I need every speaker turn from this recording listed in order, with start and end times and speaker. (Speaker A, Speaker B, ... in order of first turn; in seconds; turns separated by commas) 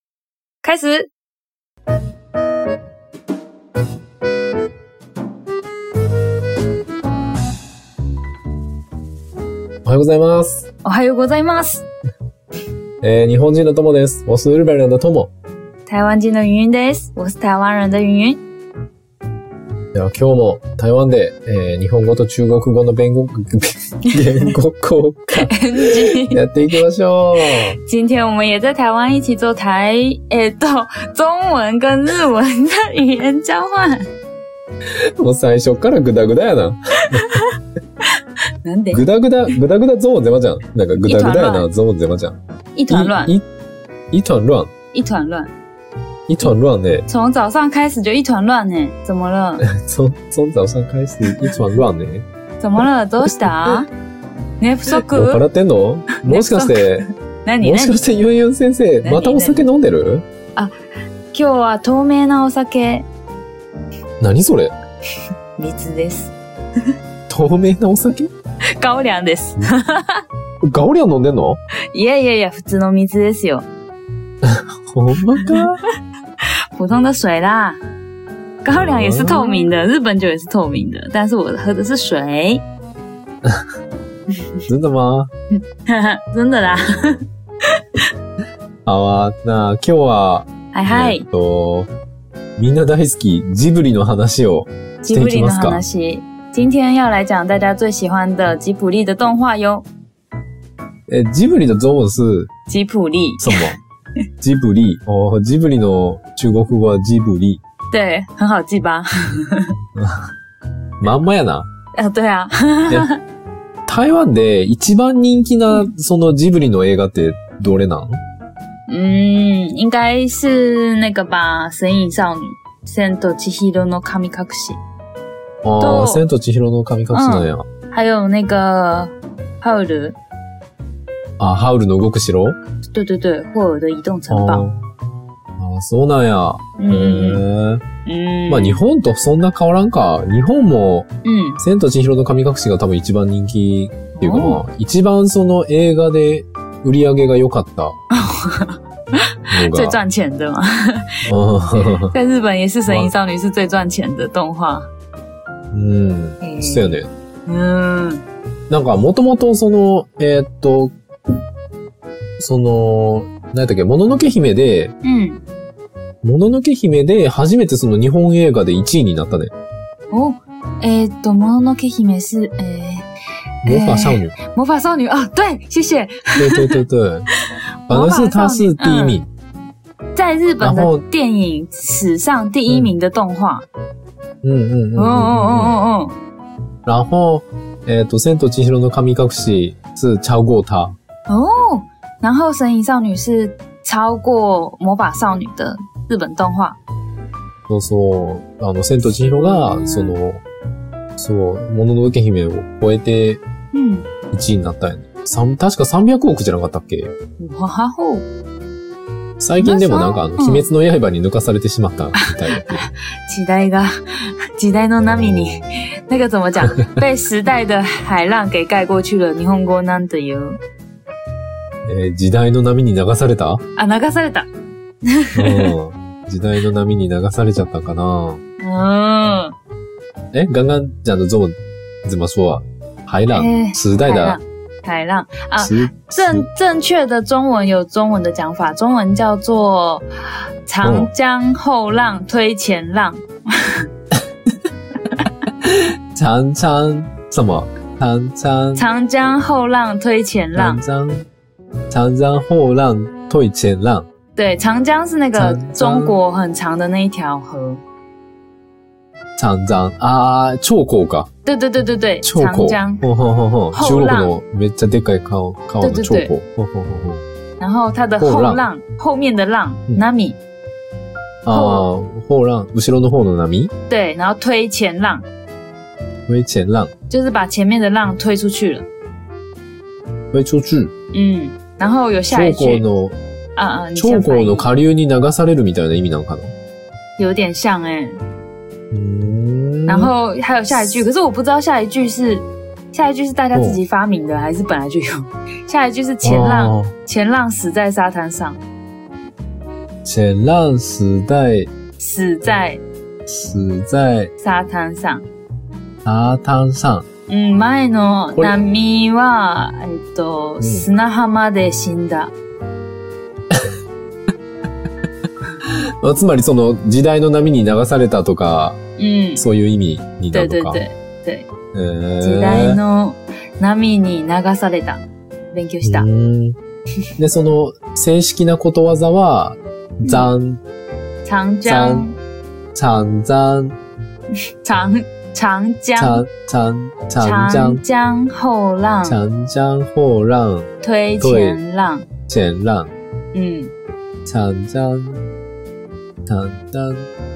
Speaker A: 0.6-1.1, Speaker B: 9.8-10.7, Speaker A: 10.8-11.8, Speaker B: 13.0-15.3, Speaker A: 15.9-18.4, Speaker B: 19.9-27.8, Speaker A: 24.1-24.5, Speaker A: 25.4-26.4, Speaker A: 27.4-34.0, Speaker B: 35.2-37.2, Speaker A: 37.1-37.6, Speaker A: 38.6-39.0, Speaker B: 38.9-42.4, Speaker A: 41.0-41.7, Speaker A: 42.8-43.4, Speaker B: 42.9-43.4, Speaker B: 44.1-44.7, Speaker A: 44.9-45.5, Speaker B: 46.3-47.1, Speaker A: 47.1-49.6, Speaker B: 49.6-52.2, Speaker A: 51.2-51.5, Speaker A: 52.6-53.9, Speaker A: 54.6-55.4, Speaker B: 55.0-57.1, Speaker A: 56.2-58.0, Speaker B: 57.6-60.2, Speaker A: 59.0-59.7, Speaker A: 61.3-63.1, Speaker B: 64.2-64.7, Speaker A: 65.6-66.3, Speaker B: 67.3-68.3, Speaker A: 68.8-70.2, Speaker B: 70.6-71.6, Speaker A: 71.9-73.7, Speaker B: 74.4-75.8, Speaker A: 75.4-75.7, Speaker A: 76.8-77.8, Speaker A: 78.6-82.6, Speaker B: 78.7-79.7, Speaker B: 84.7-85.3, Speaker A: 85.7-87.2, Speaker B: 88.9-91.9, Speaker A: 90.7-91.2, Speaker B: 92.6-95.8, Speaker A: 95.0-99.9, Speaker B: 101.1-102.5, Speaker A: 102.7-103.7, Speaker B: 103.4-103.8, Speaker B: 104.4-107.6, Speaker A: 107.9-109.7, Speaker B: 110.0-110.3, Speaker B: 111.0-111.7, Speaker A: 112.0-113.2, Speaker B: 113.9-118.2, Speaker A: 118.9-124.8, Speaker B: 125.6-127.7, Speaker A: 125.8-126.2, Speaker A: 127.1-130.2, Speaker B: 131.4-132.6, Speaker A: 132.9-134.7, Speaker B: 134.3-134.8, Speaker B: 135.6-137.8, Speaker A: 136.8-137.4, Speaker A: 138.1-138.8, Speaker B: 138.5-141.1, Speaker A: 141.2-141.6, Speaker B: 141.6-148.0, Speaker A: 144.2-144.6, Speaker A: 148.1-148.8, Speaker A: 149.5-151.1, Speaker B: 149.5-150.0, Speaker B: 151.3-152.1, Speaker A: 152.1-154.9, Speaker B: 155.7-157.1, Speaker A: 156.4-158.2, Speaker B: 158.7-160.9, Speaker B: 162.4-164.9, Speaker A: 165.0-165.4, Speaker B: 166.2-169.5, Speaker A: 170.1-173.1, Speaker B: 173.6-174.4, Speaker A: 173.7-176.8, Speaker B: 176.4-177.3, Speaker A: 177.9-179.2, Speaker B: 177.9-179.3, Speaker A: 180.2-183.7, Speaker B: 180.6-181.0, Speaker B: 184.4-185.8, Speaker A: 185.0-186.1, Speaker B: 186.9-190.9, Speaker A: 191.3-196.8, Speaker B: 197.7-200.4, Speaker A: 199.0-200.2, Speaker B: 201.2-203.4, Speaker A: 203.7-204.1, Speaker B: 204.3-207.1, Speaker A: 207.4-208.3, Speaker B: 209.4-212.8, Speaker A: 209.6-210.7, Speaker A: 212.2-220.6, Speaker B: 215.1-215.6, Speaker B: 221.8-223.6, Speaker A: 223.8-224.5, Speaker A: 225.1-225.7, Speaker B: 225.3-228.4, Speaker A: 228.6-229.6, Speaker B: 230.3-234.4, Speaker A: 233.3-240.1, Speaker B: 235.6-236.5, Speaker A: 240.7-243.8, Speaker B: 240.8-241.1, Speaker B: 245.6-248.8, Speaker A: 248.8-250.8, Speaker B: 250.6-251.2, Speaker B: 251.9-254.1, Speaker A: 254.4-257.8, Speaker B: 255.3-256.2, Speaker B: 259.4-261.3, Speaker A: 261.5-263.0, Speaker B: 262.2-267.2, Speaker A: 263.7-264.4, Speaker A: 265.8-266.3, Speaker A: 267.6-270.4, Speaker B: 268.2-268.6, Speaker B: 271.4-273.7, Speaker A: 271.5-271.9, Speaker A: 273.9-275.3, Speaker B: 276.3-276.9, Speaker A: 277.1-278.9, Speaker B: 280.3-280.9, Speaker A: 281.1-282.8, Speaker B: 282.3-283.2, Speaker A: 283.6-284.7, Speaker B: 284.0-286.5, Speaker A: 287.2-288.2, Speaker B: 288.9-290.1, Speaker A: 289.9-298.6, Speaker B: 293.5-293.8, Speaker B: 296.2-296.9, Speaker B: 300.1-301.7, Speaker A: 302.0-302.8, Speaker B: 303.3-304.3, Speaker A: 304.4-305.3, Speaker B: 306.1-307.1, Speaker A: 307.3-312.3, Speaker B: 310.6-310.9, Speaker B: 315.6-318.8, Speaker A: 319.0-319.4, Speaker B: 319.4-320.8, Speaker A: 320.3-321.5, Speaker B: 321.7-322.8, Speaker A: 322.2-326.1, Speaker B: 325.8-326.6, Speaker B: 327.2-330.6, Speaker A: 331.2-332.1, Speaker B: 331.6-332.1, Speaker B: 332.7-333.8, Speaker A: 334.6-336.2, Speaker B: 336.0-337.8, Speaker A: 337.2-339.2, Speaker B: 339.0-341.6, Speaker A: 340.8-342.1, Speaker B: 342.3-342.9, Speaker A: 343.3-343.7, Speaker B: 344.2-345.2, Speaker B: 346.3-347.1